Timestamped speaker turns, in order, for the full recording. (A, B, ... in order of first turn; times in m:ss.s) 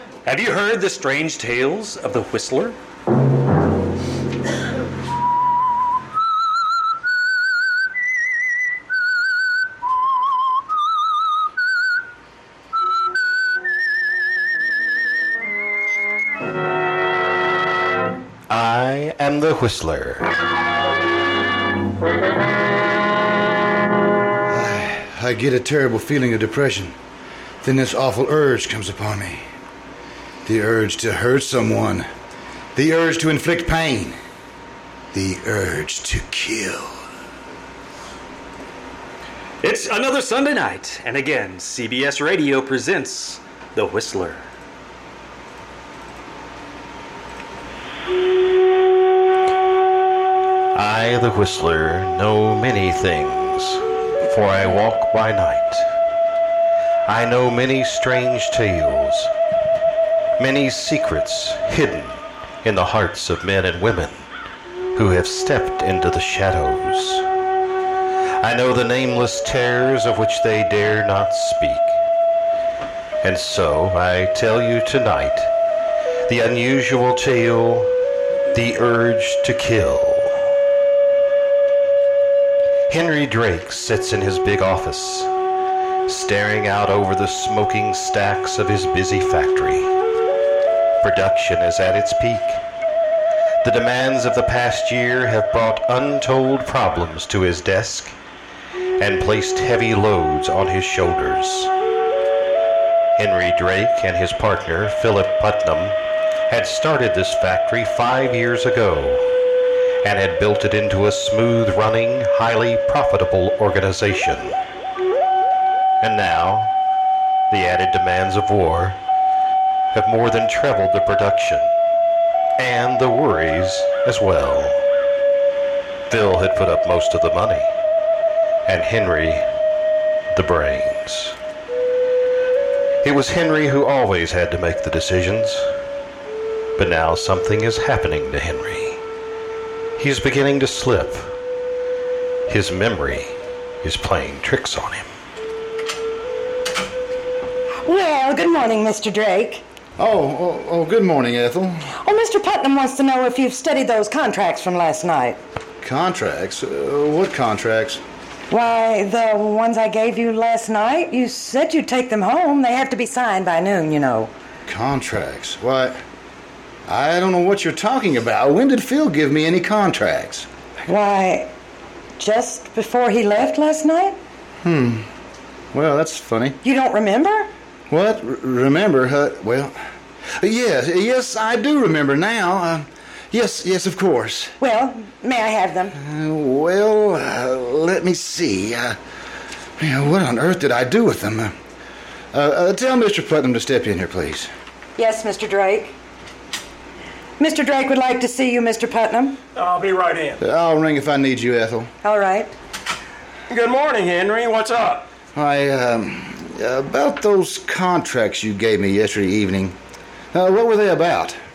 0:00.2-0:02.8 A
0:18.5-0:20.3 B
0:24.5-0:27.0 C
0:27.6-0:29.4 C
0:30.4-0:32.0 C
0:32.7-0:34.2 C
0:35.1-0:37.0 C
0:39.6-0:44.4 A
0:50.7-0:55.8 B
0:57.1-0:59.3 B
1:00.4-1:04.2 B
1:04.9-1:07.2 B
1:08.4-1:12.0 B
1:13.2-1:15.5 B
1:16.3-1:17.9 B
1:18.5-1:20.4 B
1:22.9-1:25.3 B
1:26.1-1:29.9 B
1:31.0-1:32.6 B
1:33.6-1:38.1 B
1:39.0-1:41.7 B
1:43.2-1:46.0 B
1:46.5-1:49.3 B
1:50.0-1:54.6 B
1:56.0-1:56.7 B
1:57.5-1:59.0 B
1:59.9-2:01.7 B
2:02.6-2:04.8 B
2:06.1-2:07.7 B
2:08.6-2:09.4 B
2:10.3-2:11.4 B
2:13.0-2:15.7 B
2:16.8-2:19.0 B
2:20.0-2:21.3 B
2:22.5-2:25.0 B
2:27.8-2:29.6 D
2:30.0-2:31.8 C
2:32.0-2:35.4 D
2:35.8-2:38.0 C
2:38.5-2:44.3 D
2:44.7-2:46.0 C
2:46.9-2:50.5 C
2:50.8-2:51.5 D
2:52.2-2:54.2 D
2:54.6-2:55.0 C
2:55.7-2:56.6 C
2:56.6-2:57.5 D
2:57.9-2:59.7 C
3:00.4-3:04.5 C
3:04.6-3:06.0 D
3:06.0-3:09.0 C
3:09.8-3:11.5 C
3:12.3-3:14.5 C
3:15.0-3:15.9 D
3:17.4-3:19.4 D
3:19.5-3:20.4 E
3:20.4-3:21.9 C
3:22.0-3:22.5 D
3:23.5-3:25.1 E
3:25.3-3:29.7 C
3:30.3-3:31.4 C